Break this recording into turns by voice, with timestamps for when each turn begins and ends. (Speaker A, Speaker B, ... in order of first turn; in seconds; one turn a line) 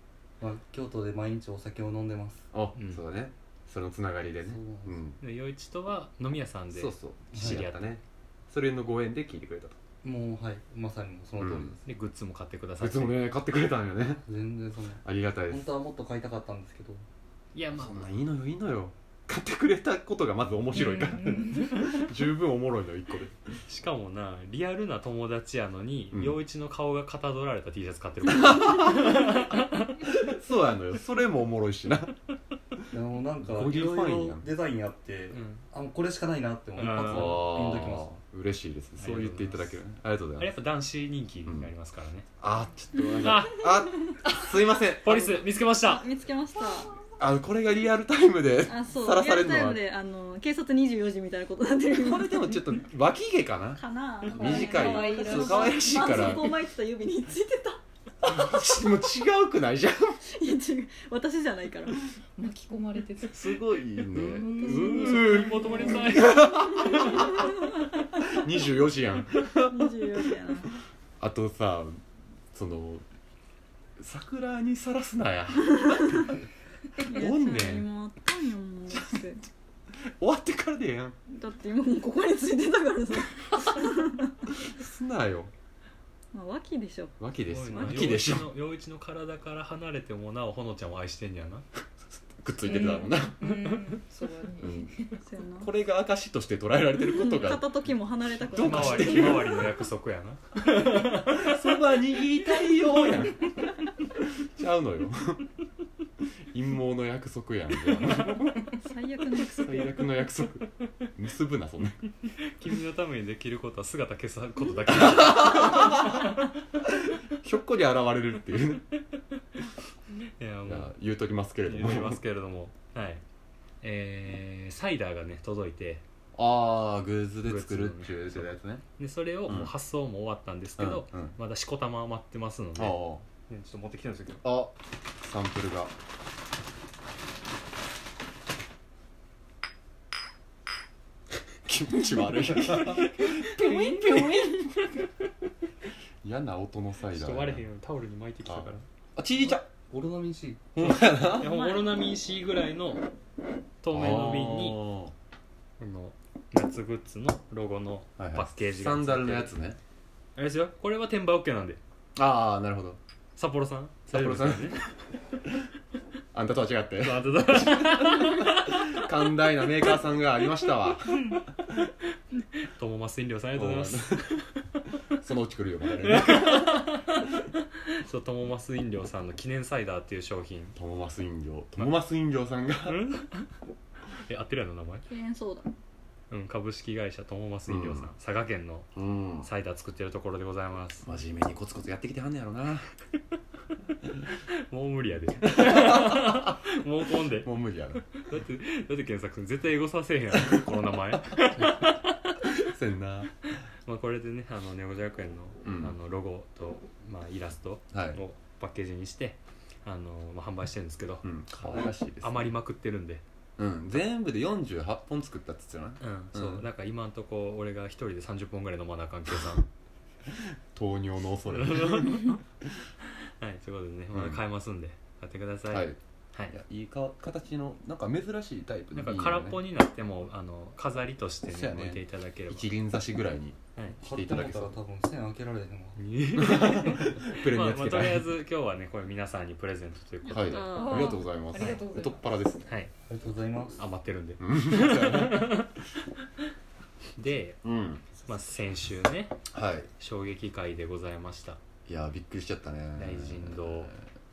Speaker A: 0.4-2.5
Speaker B: 2.5-5.2
Speaker A: 4.4-5.0
Speaker C: 5.2-8.0
Speaker B: 6.7-9.8
Speaker A: 7.3-7.6
Speaker A: 10.0-11.8
Speaker B: 11.4-11.8
Speaker C: 11.8-13.2
Speaker B: 12.8-14.2
Speaker A: 14.2-17.0
Speaker B: 15.0-15.7
Speaker C: 17.5-18.0
Speaker B: 17.7-23.6
Speaker D: 20.8-22.0
Speaker C: 23.7-30.1
Speaker B: 26.1-26.4
Speaker B: 28.2-32.1
Speaker A: 32.9-38.1
Speaker B: 33.4-34.5
Speaker C: 35.3-35.6
Speaker C: 36.8-37.5
Speaker B: 37.0-40.5
Speaker C: 39.0-39.8
Speaker C: 40.4-42.3
Speaker B: 41.5-41.7
Speaker B: 42.4-45.4
Speaker C: 43.2-43.7
Speaker E: 44.0-44.4
Speaker C: 45.0-46.1
Speaker E: 45.7-47.0
Speaker B: 47.2-49.8
Speaker E: 48.6-52.8
Speaker B: 51.9-56.6
Speaker E: 53.8-58.6
Speaker D: 54.2-56.5
Speaker B: 58.2-60.2
Speaker E: 60.3-62.1
Speaker D: 62.4-66.1
Speaker B: 63.3-67.6
Speaker C: 64.6-67.0
Speaker E: 66.7-68.3
Speaker B: 68.2-70.0
Speaker E: 69.6-70.8
Speaker B: 71.2-73.0
Speaker B: 74.0-76.3
Speaker E: 75.7-76.3
Speaker E: 77.0-79.4
Speaker B: 77.1-77.9
Speaker B: 80.2-81.2
Speaker E: 81.3-84.5
Speaker B: 84.5-85.5
Speaker E: 86.3-87.2
Speaker B: 87.2-88.5
Speaker C: 87.5-91.6
Speaker E: 87.7-88.1
Speaker B: 92.4-93.4
Speaker D: 92.6-95.1
Speaker B: 94.6-94.9
Speaker E: 95.2-95.7
Speaker B: 95.6-97.9
Speaker E: 97.1-99.6
Speaker B: 98.4-99.7
Speaker C: 98.5-101.6
Speaker B: 100.9-103.5
Speaker B: 104.1-105.5
Speaker B: 106.5-108.7
Speaker E: 108.7-110.1
Speaker B: 109.4-112.0
Speaker C: 112.4-116.4
Speaker B: 115.0-116.3
Speaker B: 116.9-118.8
Speaker C: 120.4-120.9
Speaker B: 120.7-122.2
Speaker C: 121.6-123.2
Speaker C: 123.8-126.0
Speaker B: 126.3-128.8
Speaker C: 127.4-134.5
Speaker B: 129.5-129.7
Speaker B: 130.8-131.3
Speaker B: 132.8-133.2
Speaker B: 134.4-135.9
Speaker B: 141.6-144.7
Speaker D: 143.4-144.7
Speaker E: 143.4-144.7
Speaker B: 146.2-147.7
Speaker C: 147.1-148.8
Speaker B: 148.4-149.7
Speaker A: 149.5-150.7
Speaker B: 150.7-151.5
Speaker C: 150.8-153.1
Speaker E: 151.4-152.0
Speaker C: 153.8-154.8
Speaker B: 153.9-155.1
Speaker C: 155.8-159.5
Speaker B: 158.2-159.8
Speaker C: 160.3-161.8
Speaker B: 162.1-163.0
Speaker C: 163.3-164.9
Speaker B: 164.1-164.8
Speaker B: 166.3-171.4
Speaker C: 167.0-169.1
Speaker C: 172.5-174.5
Speaker B: 173.5-174.4
Speaker B: 175.1-176.8
Speaker C: 176.0-177.3
Speaker C: 177.8-180.8
Speaker B: 180.8-183.0
Speaker C: 182.8-183.5
Speaker C: 184.2-185.0
Speaker E: 185.1-185.7
Speaker C: 186.3-191.1
Speaker B: 187.7-188.1
Speaker B: 188.9-189.5
Speaker B: 191.0-192.9
Speaker C: 194.3-197.5
Speaker B: 195.5-196.6
Speaker B: 197.4-198.0
Speaker C: 198.1-201.9
Speaker B: 202.4-203.3
Speaker C: 203.8-213.2
Speaker B: 205.6-205.9
Speaker B: 207.9-208.2
Speaker B: 211.2-212.6
Speaker B: 213.6-216.6
Speaker C: 216.0-219.7
Speaker B: 220.3-222.4
Speaker C: 221.5-222.4
Speaker C: 223.4-226.5
Speaker B: 224.1-224.4
Speaker B: 225.7-226.0
Speaker B: 226.5-229.6
Speaker C: 228.9-232.7
Speaker B: 231.5-234.8
Speaker A: 234.0-236.0
Speaker C: 236.0-240.8
Speaker B: 236.4-238.3
Speaker E: 240.3-241.1
Speaker B: 240.3-242.7
Speaker D: 240.7-242.3
Speaker C: 242.7-242.9
Speaker A: 243.1-243.8
Speaker C: 243.8-245.8
Speaker B: 244.4-245.7
Speaker C: 247.2-247.6
Speaker B: 247.6-248.1
Speaker C: 248.2-249.4
Speaker B: 249.5-249.9
Speaker C: 250.0-251.6
Speaker B: 251.9-254.1
Speaker C: 253.0-253.9